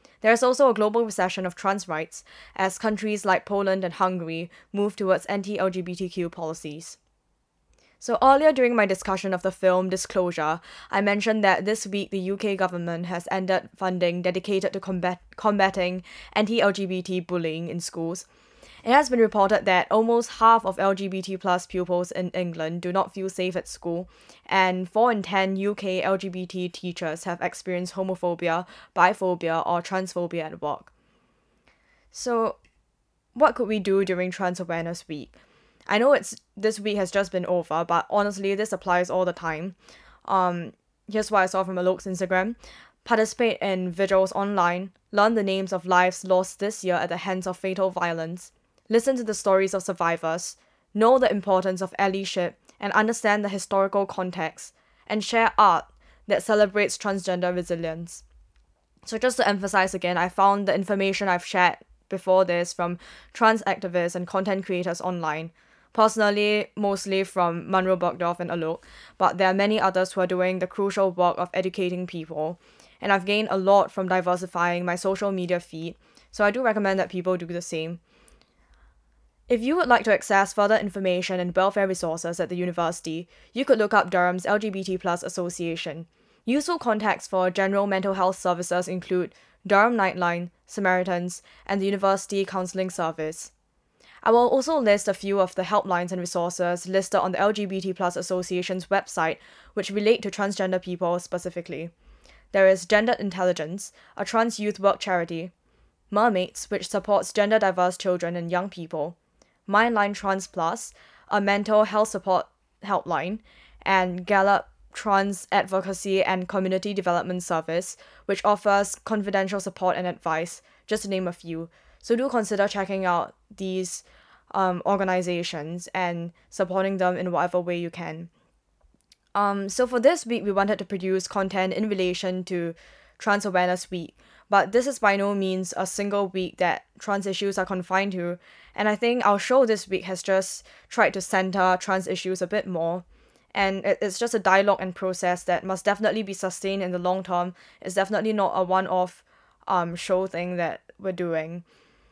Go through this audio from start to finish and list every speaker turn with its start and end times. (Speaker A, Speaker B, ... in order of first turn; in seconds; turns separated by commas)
Speaker A: 0.2-7.0, Speaker A: 8.0-18.3, Speaker A: 18.8-30.9, Speaker A: 32.1-32.6, Speaker A: 33.4-35.4, Speaker A: 35.9-58.2, Speaker A: 59.1-78.0, Speaker A: 79.5-93.5, Speaker A: 94.2-101.9, Speaker A: 102.5-105.5, Speaker A: 106.1-109.2, Speaker A: 109.7-128.3, Speaker A: 129.3-151.6